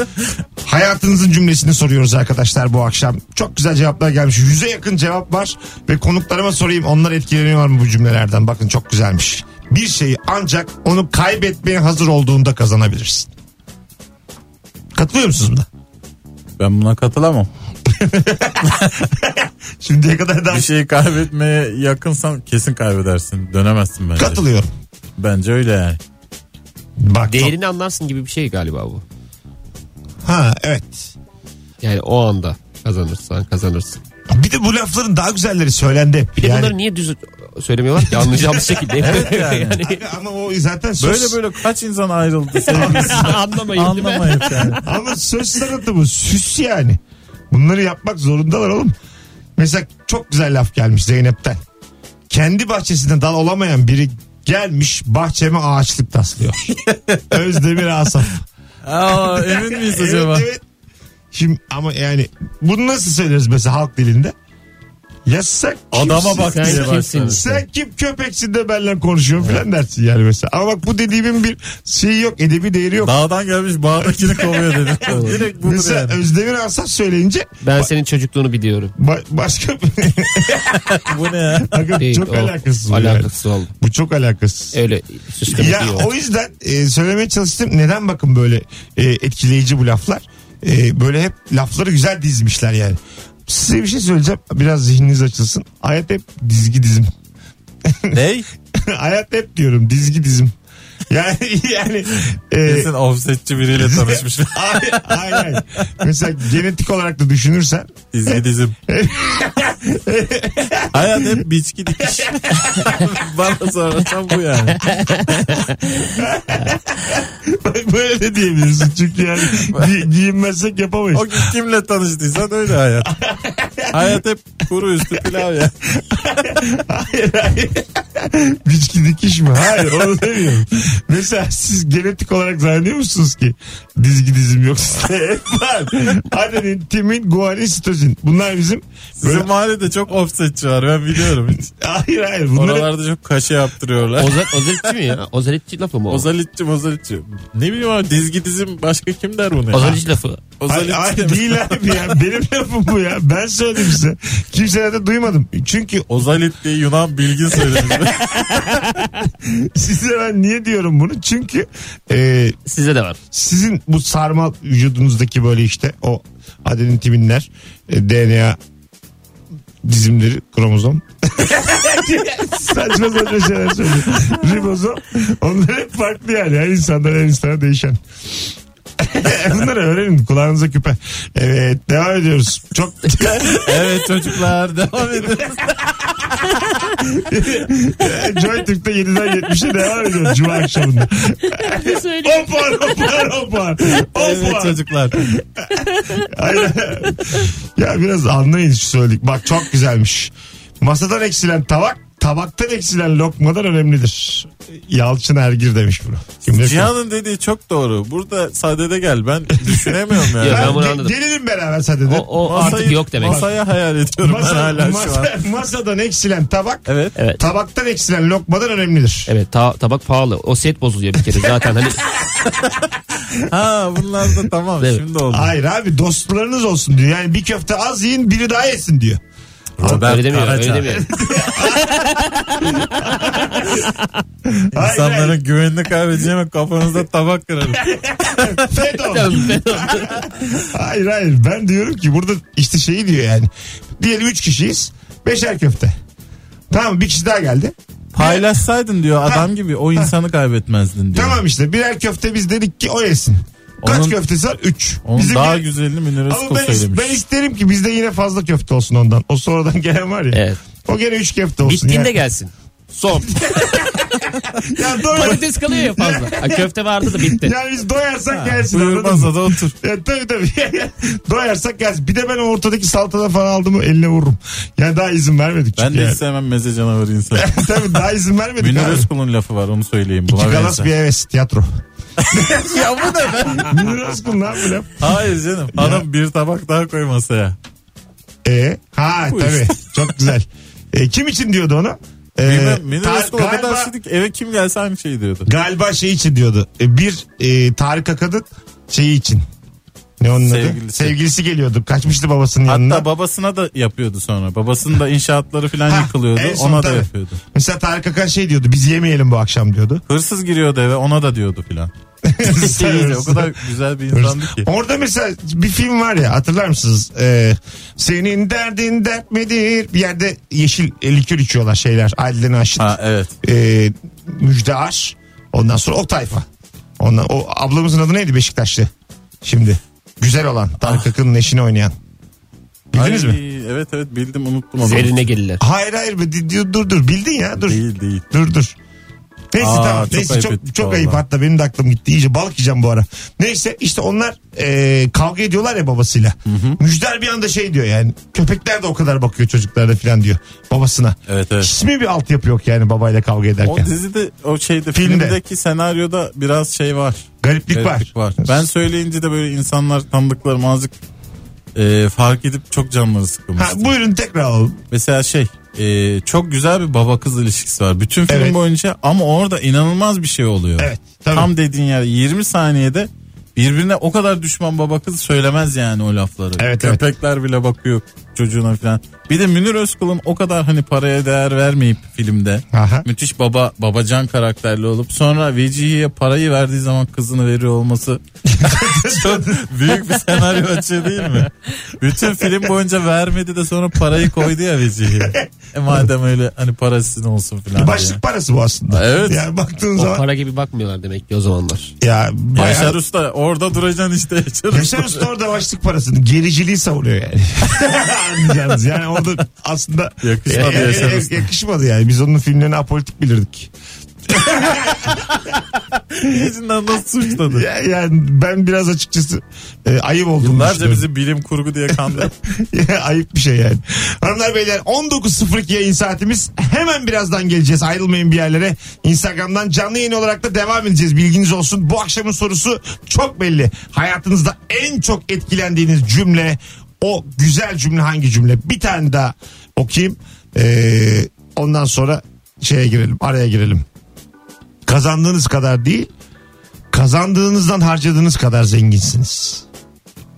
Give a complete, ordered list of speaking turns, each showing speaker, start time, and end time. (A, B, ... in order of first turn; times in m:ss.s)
0:00.6-0:13.3 A
0:15.0-0:15.7 A
0:16.6-0:17.5 B
0:17.9-0:20.7 A
0:20.5-0:24.4 B
0:24.2-0:24.7 A
0:25.2-0:26.0 B
0:27.0-0:27.6 A
0:27.3-0:29.0 C
0:30.2-0:31.1 A
0:31.8-0:34.0 C
0:34.3-0:36.8 A
0:36.4-0:40.0 C
0:39.0-0:39.8 B
0:39.8-0:41.4 A
0:41.0-0:44.8 B
0:42.7-0:44.8 C
0:42.8-0:43.3 A
0:44.8-0:47.0 A
0:47.5-0:49.0 A
0:49.6-0:51.6 A
0:52.3-0:56.8 A
0:56.9-0:57.4 B
0:57.3-0:58.4 A
0:58.9-1:00.5 B
0:59.1-1:00.6 A
1:01.3-1:04.4 A
1:05.3-1:13.2 A
1:05.9-1:07.4 B
1:06.1-1:07.6 C
1:13.0-1:16.2 B
1:14.0-1:17.9 A
1:15.1-1:15.4 C
1:17.6-1:18.9 C
1:19.0-1:21.0 A
1:20.9-1:22.0 B
1:21.6-1:24.8 A
1:22.0-1:23.7 C
1:24.7-1:26.1 C
1:25.5-1:37.1 A
1:37.8-1:38.2 A
1:38.1-1:38.5 B
1:38.7-1:40.5 A
1:41.1-1:42.9 A
1:42.7-1:45.3 B
1:43.7-1:51.4 A
1:48.1-1:48.8 B
1:50.9-1:54.9 B
1:52.0-1:53.1 A
1:55.0-1:56.0 C
1:56.2-2:01.5 A
1:59.6-1:59.9 B
2:01.1-2:03.2 B
2:03.0-2:04.2 A
2:03.9-2:05.7 B
2:06.1-2:19.5 A
2:19.2-2:21.7 B
2:21.5-2:22.9 A
2:22.6-2:24.9 B
2:24.2-2:26.3 C
2:26.1-2:30.0 B
2:29.7-2:30.4 C
2:30.6-2:32.1 B
2:30.7-2:36.1 A
2:36.1-2:38.6 B
2:37.6-2:42.6 A
2:42.7-2:43.2 C
2:43.3-2:48.6 A
2:49.8-2:58.0 A
2:59.0-3:03.8 A
3:03.3-3:06.5 B
3:07.0-3:26.9 A
3:11.6-3:12.5 C
3:13.9-3:15.2 B
3:26.4-3:30.8 B
3:29.5-3:33.6 A
3:30.4-3:31.2 C
3:32.1-3:33.4 C
3:32.4-3:35.4 B
3:34.2-3:39.3 A
3:36.9-3:37.2 B
3:39.3-3:42.0 C
3:42.7-3:45.5 B
3:45.3-3:49.2 A
3:49.8-3:51.3 B
3:49.8-3:51.1 C
3:50.9-3:52.1 A
3:51.8-3:53.9 C
3:52.6-3:53.9 A
3:54.4-3:55.4 A
3:54.8-3:58.6 B
3:57.8-4:06.0 A
3:59.0-4:00.3 C
4:06.7-4:08.5 A
4:08.1-4:11.4 B
4:09.2-4:10.1 A
4:11.1-4:15.7 A
4:13.8-4:14.2 B
4:15.0-4:17.2 B
4:16.3-4:22.2 A
4:20.3-4:20.6 C
4:21.6-4:24.3 C
4:23.2-4:36.2 A
4:25.1-4:27.5 C
4:28.3-4:29.8 B
4:35.8-4:38.0 B
4:37.3-4:39.1 A
4:38.6-4:40.9 B
4:40.3-4:41.7 A
4:42.2-4:43.9 B
4:42.3-4:42.9 A
4:43.6-4:45.2 A
4:45.0-4:47.6 B
4:45.7-4:46.0 A
4:48.4-4:53.9 A
4:49.3-4:50.2 B
4:52.4-4:55.5 B
4:55.4-4:59.4 A
5:00.2-5:03.1 A
5:00.4-5:01.2 B
5:02.7-5:07.4 B
5:05.9-5:10.0 A
5:10.1-5:11.9 B
5:12.2-5:13.5 A
5:12.4-5:14.7 B
5:14.1-5:26.5 A
5:22.8-5:23.3 B
5:27.0-5:28.9 A
5:29.4-5:31.9 A
5:32.9-5:33.4 A
5:33.0-5:35.3 B
5:34.8-5:35.6 C
5:35.6-5:37.8 A
5:37.7-5:38.2 B
5:38.3-5:38.8 A
5:39.5-5:53.9 A
5:39.6-5:41.2 B
5:46.5-5:46.8 B
5:51.3-5:51.7 B
5:53.6-6:00.9 B
5:54.9-5:55.4 A
5:57.4-5:58.6 A
6:01.8-6:03.9 B
6:03.6-6:04.8 A
6:04.9-6:28.2 B
6:08.3-6:08.6 A
6:10.8-6:11.5 A
6:16.6-6:17.0 A
6:22.7-6:23.1 A
6:28.5-6:29.8 A
6:29.0-6:38.2 B
6:35.2-6:35.5 A
6:37.8-6:40.2 A
6:38.9-6:39.4 B
6:40.0-6:41.9 C
6:42.0-6:43.0 A
6:42.6-6:45.3 B
6:44.7-6:53.7 A
6:50.2-6:51.5 B
6:54.3-6:55.2 A
6:56.1-6:57.7 B
6:57.4-7:01.1 A
7:00.4-7:02.3 B
7:01.9-7:23.9 A
7:24.9-7:26.1 A
7:26.9-7:29.6 A